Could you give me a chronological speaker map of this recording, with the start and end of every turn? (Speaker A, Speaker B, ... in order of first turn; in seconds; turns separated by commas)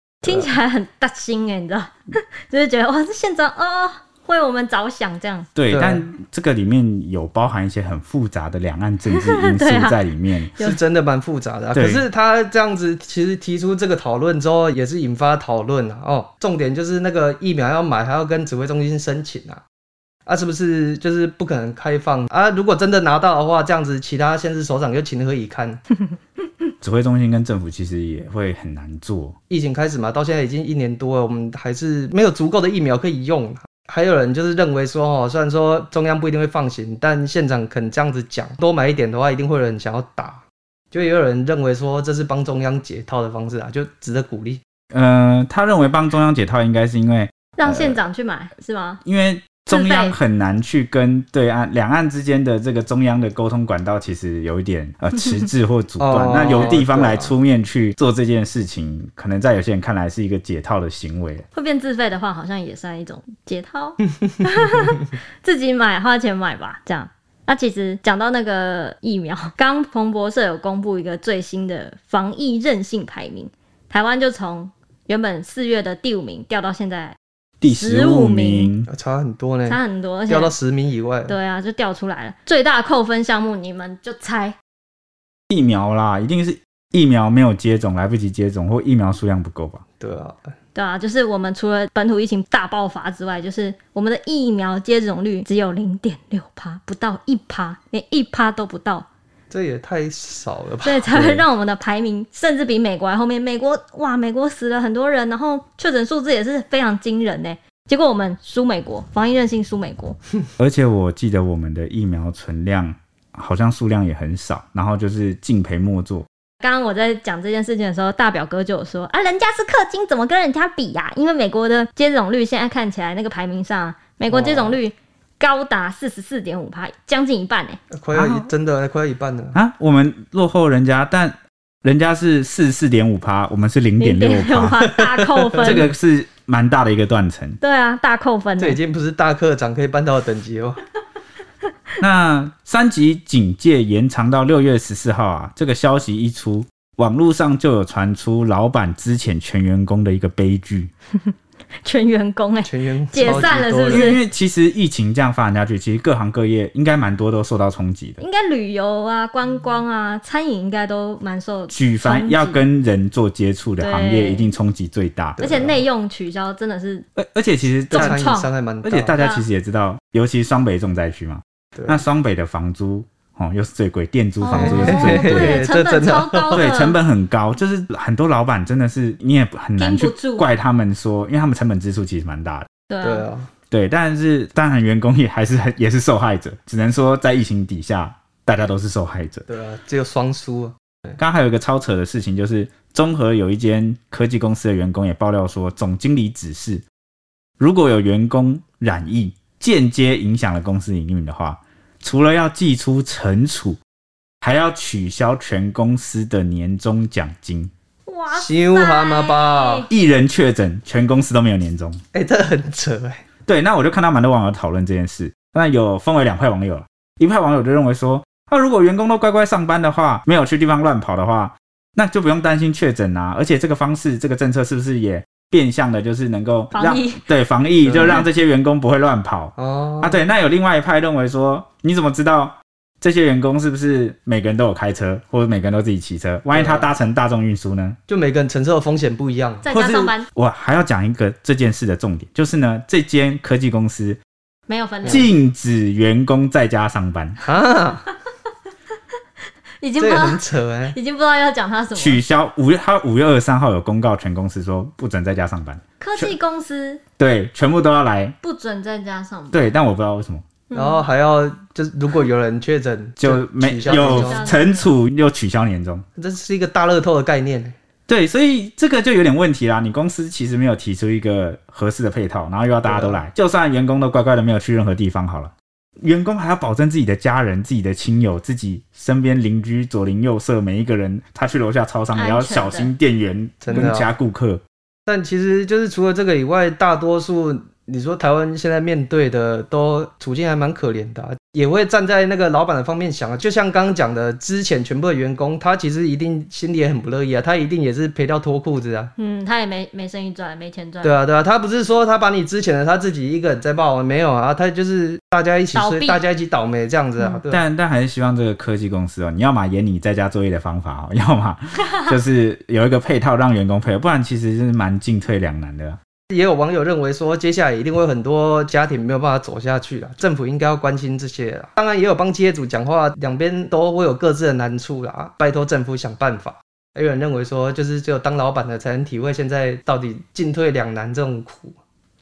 Speaker A: 0.2-5.5, Speaker B: 5.5-10.5, Speaker C: 5.7-6.0, Speaker A: 9.0-10.8, Speaker C: 10.6-19.6, Speaker B: 11.7-12.0, Speaker C: 20.2-25.8, Speaker B: 26.8-29.4, Speaker C: 29.5-44.6, Speaker B: 44.9-48.0, Speaker A: 47.5-49.0, Speaker B: 49.0-61.4, Speaker A: 49.7-50.2, Speaker C: 56.0-57.3, Speaker A: 61.5-78.7, Speaker B: 77.6-78.9, Speaker C: 78.9-81.3, Speaker A: 79.7-80.5, Speaker A: 81.3-84.5, Speaker B: 85.5-89.8, Speaker C: 90.0-90.5, Speaker A: 90.7-99.1, Speaker C: 99.5-101.5, Speaker A: 100.8-110.2, Speaker B: 110.6-116.2, Speaker A: 116.6-127.8, Speaker C: 124.3-124.8, Speaker C: 127.9-129.6, Speaker B: 128.1-128.5, Speaker B: 129.5-134.8, Speaker A: 134.0-135.9, Speaker C: 134.9-135.8, Speaker B: 135.6-137.6, Speaker A: 137.6-138.8, Speaker C: 138.6-140.8, Speaker B: 142.0-150.9, Speaker A: 151.8-154.2, Speaker C: 152.6-154.1, Speaker B: 153.2-158.2, Speaker A: 158.2-162.7, Speaker B: 161.7-165.5, Speaker A: 163.8-164.5, Speaker C: 165.4-165.8, Speaker A: 165.4-167.1, Speaker B: 167.2-168.2, Speaker A: 167.9-168.5, Speaker C: 167.9-169.2, Speaker B: 168.8-175.6, Speaker A: 169.2-169.4, Speaker C: 171.7-172.0, Speaker A: 174.4-177.0, Speaker C: 174.5-176.7, Speaker B: 176.5-182.7, Speaker A: 179.8-180.5, Speaker A: 182.9-183.3, Speaker C: 183.0-183.5, Speaker B: 183.7-189.4, Speaker C: 189.5-190.7, Speaker B: 191.2-196.8, Speaker B: 197.6-203.8, Speaker B: 204.4-207.7, Speaker A: 208.1-209.9, Speaker C: 208.3-209.9, Speaker B: 209.9-212.0, Speaker C: 212.1-213.2, Speaker B: 213.5-238.0, Speaker A: 226.7-227.2, Speaker C: 227.8-228.2, Speaker C: 229.6-230.2, Speaker C: 236.5-236.9, Speaker C: 238.1-239.7, Speaker A: 239.6-240.3, Speaker B: 239.7-244.2, Speaker A: 244.7-245.3, Speaker C: 245.0-245.3, Speaker B: 245.1-247.4, Speaker C: 247.4-248.0, Speaker A: 249.8-252.2, Speaker C: 250.0-250.9, Speaker B: 251.9-256.3, Speaker A: 256.0-257.0, Speaker B: 257.2-258.3, Speaker A: 258.4-259.7, Speaker B: 259.5-260.4, Speaker A: 260.7-261.1, Speaker C: 260.7-264.6, Speaker B: 263.2-266.0, Speaker A: 263.8-264.9, Speaker C: 266.1-267.7, Speaker B: 268.1-284.6, Speaker C: 272.8-273.2, Speaker A: 282.1-282.9, Speaker C: 283.6-284.1, Speaker C: 285.1-299.1, Speaker A: 299.2-301.2, Speaker C: 301.0-307.6, Speaker A: 305.7-306.2, Speaker B: 307.5-316.0, Speaker C: 316.3-331.8